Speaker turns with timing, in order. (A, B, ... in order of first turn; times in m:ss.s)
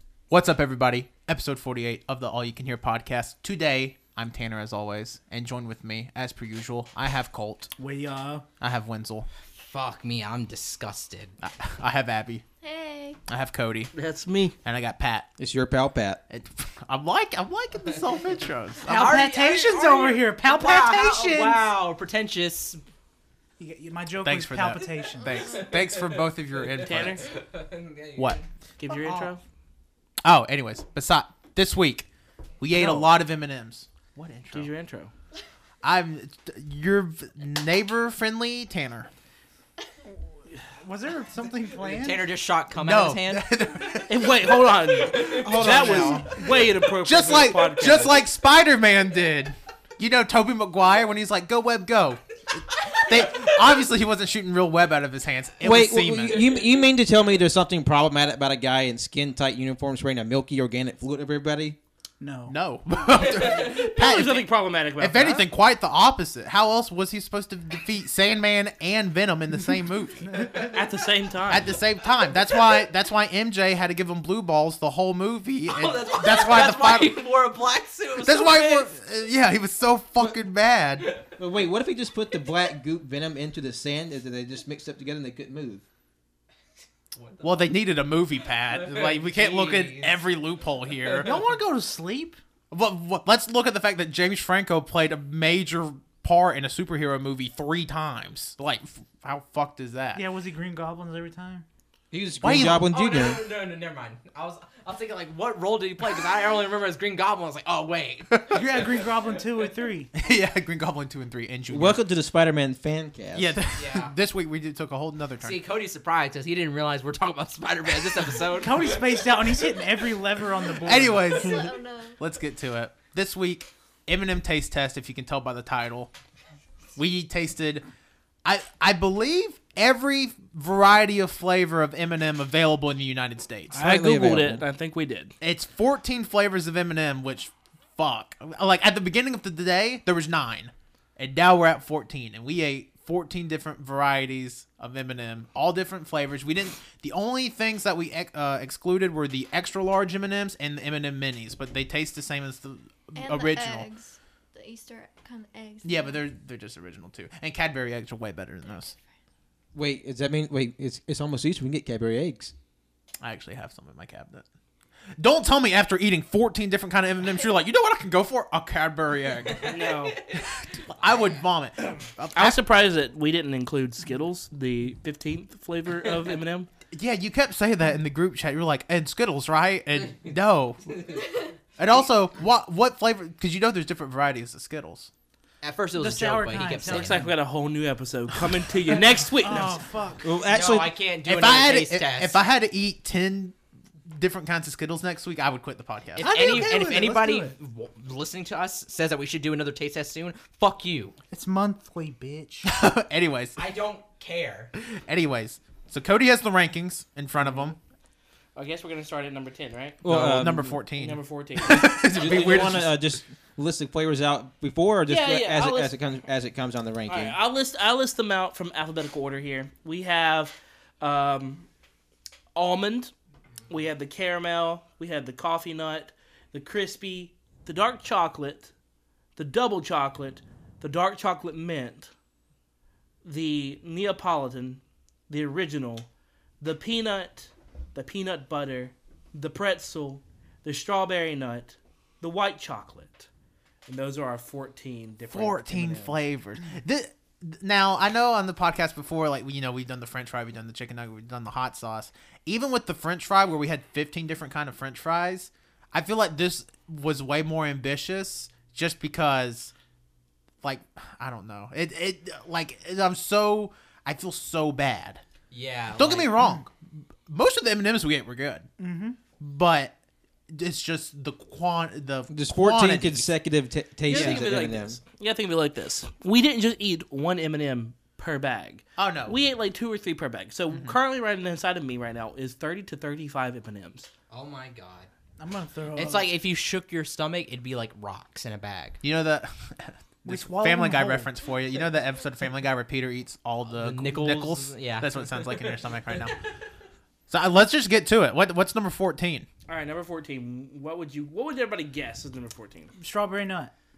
0:00.3-0:07.7 A
0:07.8-0:08.5 B
0:08.6-0:09.3 A
0:09.6-0:11.3 C
0:11.4-0:12.4 A
0:12.6-0:13.2 D
0:13.3-0:13.9 A
0:13.9-0:14.6 E
0:14.6-0:15.3 A
0:15.4-0:16.2 F
0:16.3-0:19.2 A
0:18.8-0:21.6 B
0:18.8-0:22.8 C
0:23.6-0:25.4 B
0:24.2-0:27.3 A
0:25.4-0:28.4 C
0:26.8-0:27.2 E
0:28.2-0:28.4 A
0:28.8-0:29.4 E
0:30.2-0:32.1 A
0:32.6-0:34.7 A
0:32.7-0:33.2 B
0:34.5-0:35.1 E
0:35.8-0:39.1 A
0:40.8-0:42.3 B
0:41.8-0:43.5 C
0:42.8-0:56.4 A
0:44.1-0:48.2 E
0:45.2-0:46.3 F
0:45.6-0:46.1 B
0:55.6-1:01.8 F
0:56.3-0:56.8 C
1:02.2-1:02.6 B
1:02.5-1:10.5 A
1:03.3-1:05.5 E
1:10.6-1:11.8 E
1:11.5-1:17.2 A
1:15.7-1:18.9 C
1:18.2-1:21.1 A
1:21.0-1:21.3 C
1:21.4-1:25.8 F
1:27.2-1:27.8 C
1:27.4-1:31.4 A
1:28.7-1:30.2 C
1:31.0-1:32.4 B
1:32.7-1:40.2 A
1:40.2-1:41.6 B
1:42.1-1:43.4 F
1:42.4-1:42.9 A
1:42.5-1:49.4 C
1:48.3-1:48.6 A
1:48.5-1:50.1 B
1:50.2-1:52.0 A
1:51.7-1:53.6 F
1:53.3-1:55.6 A
1:53.8-1:54.1 C
1:55.4-1:59.7 C
1:58.5-2:01.5 B
2:00.8-2:06.1 A
2:01.2-2:02.2 D
2:07.0-2:07.9 A
2:08.4-2:13.8 A
2:13.7-2:15.4 E
2:13.7-2:14.6 F
2:15.4-2:33.9 A
2:33.2-2:36.2 D
2:35.8-2:39.0 A
2:39.7-2:42.5 F
2:43.2-2:44.4 A
2:45.2-2:52.6 A
2:49.5-2:50.4 C
2:49.7-2:50.2 E
2:51.0-2:51.4 C
2:52.4-2:56.7 E
2:56.9-3:00.9 A
3:01.0-3:01.3 C
3:01.8-3:05.1 A
3:05.6-3:07.3 C
3:06.0-3:07.3 B
3:06.9-3:09.8 E
3:09.4-3:10.4 B
3:10.2-3:11.0 F
3:10.4-3:12.4 C
3:11.2-3:13.6 A
3:14.1-3:17.2 A
3:16.2-3:21.2 C
3:16.2-3:17.5 B
3:21.3-3:22.7 B
3:22.6-3:23.6 A
3:23.6-3:24.7 C
3:24.8-3:27.8 A
3:28.6-3:32.7 E
3:30.0-3:30.8 F
3:30.1-3:33.1 A
3:32.0-3:37.4 F
3:35.1-3:36.0 E
3:37.1-3:41.7 E
3:42.6-3:43.1 E
3:43.7-3:48.7 E
3:49.4-3:52.1 E
3:53.2-3:56.1 E
3:56.6-4:03.3 E
4:03.9-4:06.2 E
4:05.3-4:19.7 A
4:20.6-4:25.2 A
4:25.5-4:26.3 C
4:26.0-4:26.7 A
4:26.4-4:26.6 B
4:27.3-4:28.7 A
4:28.8-4:29.2 B
4:29.4-4:30.0 A
4:30.5-4:33.3 A
4:32.3-4:35.0 F
4:34.0-4:44.1 E
4:34.1-4:34.5 A
4:39.0-4:39.4 A
4:40.7-4:41.0 A
4:44.3-4:45.1 C
4:45.4-4:46.3 B
4:46.0-4:49.0 C
4:49.0-4:56.4 A
4:50.3-4:51.3 B
4:53.7-4:56.4 C
4:57.3-4:59.5 A
4:59.7-5:03.0 E
5:03.0-5:03.7 B